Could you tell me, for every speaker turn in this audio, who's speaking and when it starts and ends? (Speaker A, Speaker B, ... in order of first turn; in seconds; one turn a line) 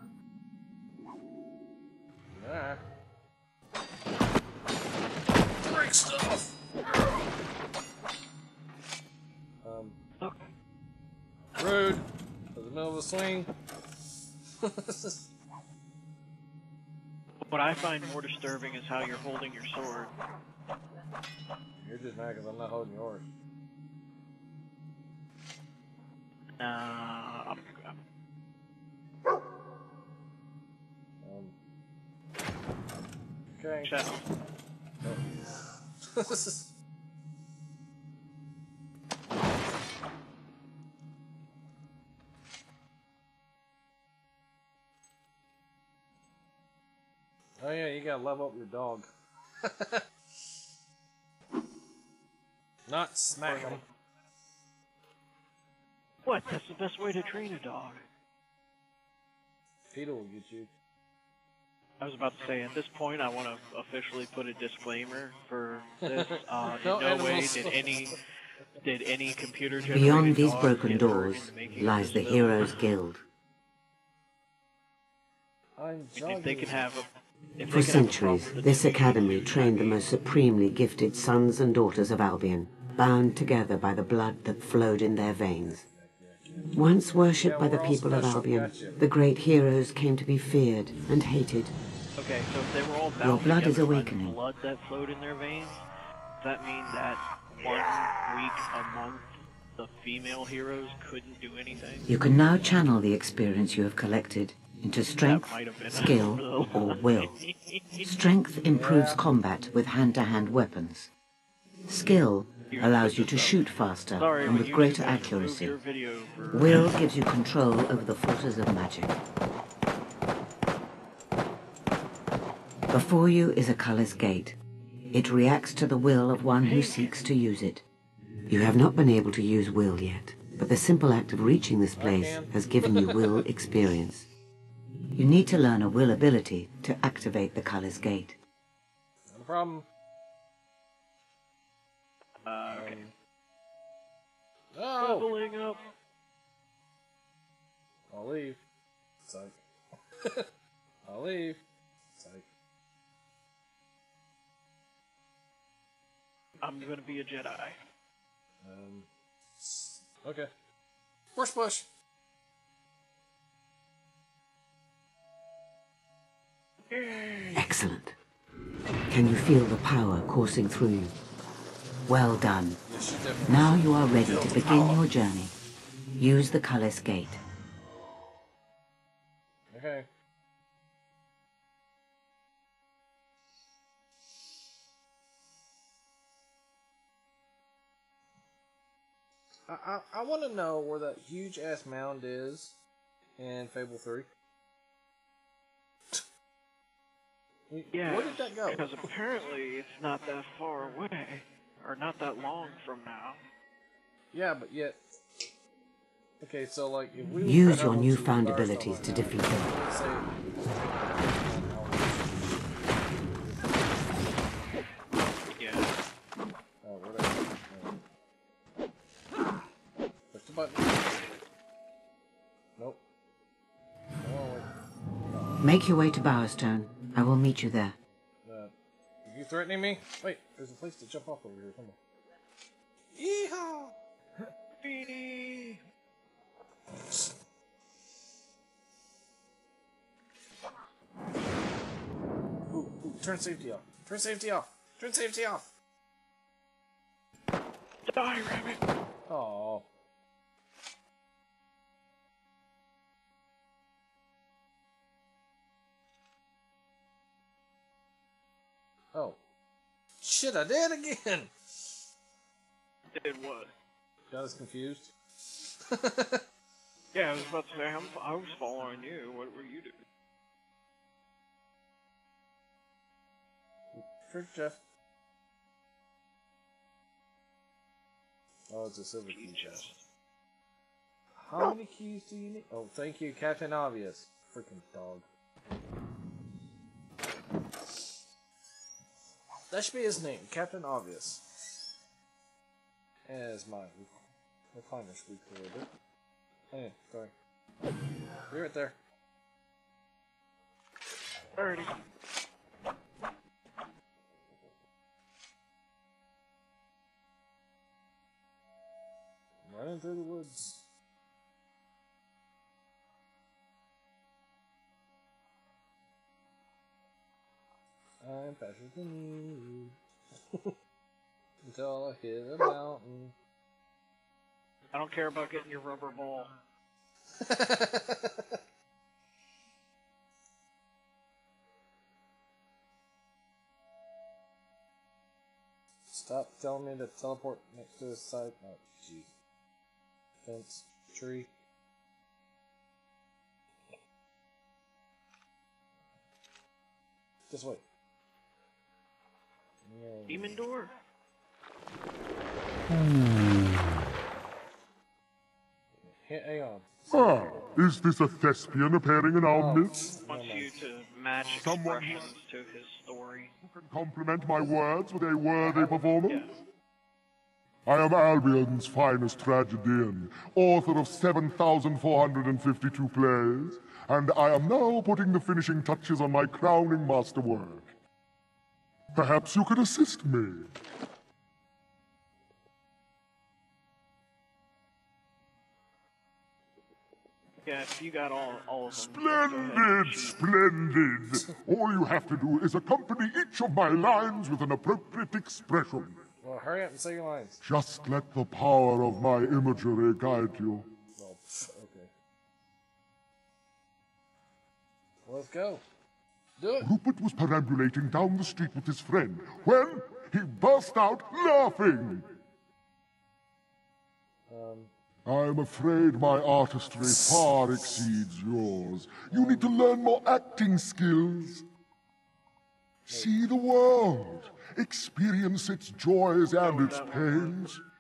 Speaker A: 2.3-2.8
Speaker A: 5.6-6.6
Speaker A: 9.6-10.0
Speaker A: 11.6-13.5
Speaker A: 14.6-15.2
Speaker B: 17.4-20.1
Speaker A: 21.8-23.3
Speaker B: 26.6-27.9
Speaker A: 31.2-31.5
Speaker A: 33.5-34.0
Speaker B: 33.8-34.2
Speaker A: 35.0-36.7
Speaker A: 47.6-49.1
Speaker A: 49.6-50.0
Speaker A: 52.9-53.8
Speaker B: 53.4-53.8
Speaker B: 56.2-58.0
Speaker A: 59.9-60.7
Speaker B: 62.0-68.2
Speaker A: 66.1-68.2
Speaker B: 68.8-72.7
Speaker C: 69.9-73.2
Speaker A: 75.8-76.8
Speaker B: 76.2-80.0
Speaker C: 77.7-85.8
Speaker A: 85.7-89.0
Speaker C: 86.7-91.7
Speaker B: 92.2-95.8
Speaker C: 93.2-94.4
Speaker B: 96.4-102.1
Speaker C: 102.1-107.3
Speaker B: 105.2-108.0
Speaker C: 108.0-111.1
Speaker A: 108.7-109.2
Speaker C: 111.8-115.8
Speaker B: 112.7-113.6
Speaker B: 114.2-116.9
Speaker C: 116.5-119.1
Speaker C: 122.9-124.6
Speaker C: 125.1-127.8
Speaker C: 128.5-134.3
Speaker A: 131.9-133.4
Speaker C: 135.1-138.3
Speaker A: 139.3-139.9
Speaker B: 142.4-143.0
Speaker A: 142.7-143.1
Speaker A: 144.7-145.3
Speaker B: 145.0-145.8
Speaker A: 148.1-148.6
Speaker A: 149.2-149.6
Speaker A: 151.1-151.6
Speaker A: 152.2-152.4
Speaker B: 156.6-157.8
Speaker A: 158.6-160.5
Speaker A: 161.3-161.9
Speaker B: 166.9-167.7
Speaker C: 167.6-168.2
Speaker C: 169.1-171.1
Speaker C: 172.1-172.8
Speaker A: 172.8-175.0
Speaker C: 173.4-175.5
Speaker C: 176.2-177.4
Speaker A: 179.7-180.1
Speaker A: 189.7-192.8
Speaker A: 193.4-194.3
Speaker A: 197.7-199.0
Speaker B: 197.9-203.4
Speaker A: 204.3-205.0
Speaker A: 206.4-214.1
Speaker C: 207.4-209.7
Speaker B: 215.6-215.9
Speaker A: 216.8-218.0
Speaker A: 220.3-221.0
Speaker A: 222.8-223.0
Speaker A: 224.2-224.7
Speaker A: 225.3-225.7
Speaker C: 225.6-227.9
Speaker A: 228.4-228.7
Speaker A: 229.2-232.0
Speaker A: 233.1-233.9
Speaker B: 234.8-235.8
Speaker A: 236.9-237.3
Speaker A: 242.7-245.7
Speaker B: 248.1-248.8
Speaker A: 249.3-249.9
Speaker A: 259.1-259.4
Speaker A: 260.2-261.5
Speaker B: 263.1-263.7
Speaker A: 264.3-266.4
Speaker B: 267.1-269.9
Speaker A: 273.9-274.8
Speaker A: 278.7-279.9
Speaker B: 279.3-280.0
Speaker A: 281.4-285.2
Speaker A: 289.7-291.5
Speaker A: 293.2-294.1
Speaker A: 294.7-295.9
Speaker A: 296.7-297.3
Speaker A: 298.5-298.9
Speaker B: 301.5-301.9
Speaker A: 309.6-310.9
Speaker A: 318.2-319.9
Speaker A: 321.6-323.3
Speaker B: 324.9-326.5
Speaker A: 327.4-328.6
Speaker A: 336.1-339.3
Speaker A: 340.4-341.5
Speaker A: 347.5-347.8
Speaker A: 349.8-350.6
Speaker B: 350.3-350.9
Speaker A: 356.0-356.9
Speaker D: 357.1-360.1
Speaker A: 359.5-360.7
Speaker B: 360.2-363.5
Speaker D: 361.5-362.3
Speaker D: 363.6-366.5
Speaker A: 365.6-366.0
Speaker B: 366.2-366.5
Speaker D: 367.9-377.9
Speaker D: 379.1-380.7
Speaker B: 387.6-390.4
Speaker D: 388.9-396.2
Speaker A: 396.4-397.6
Speaker D: 397.6-400.9
Speaker A: 401.1-402.1
Speaker A: 405.2-405.8
Speaker A: 406.6-406.9
Speaker D: 406.8-412.3
Speaker A: 414.5-414.9
Speaker D: 415.3-421.6
Speaker A: 419.3-419.7
Speaker D: 423.1-427.8
Speaker A: 423.1-423.4
Speaker B: 426.6-427.6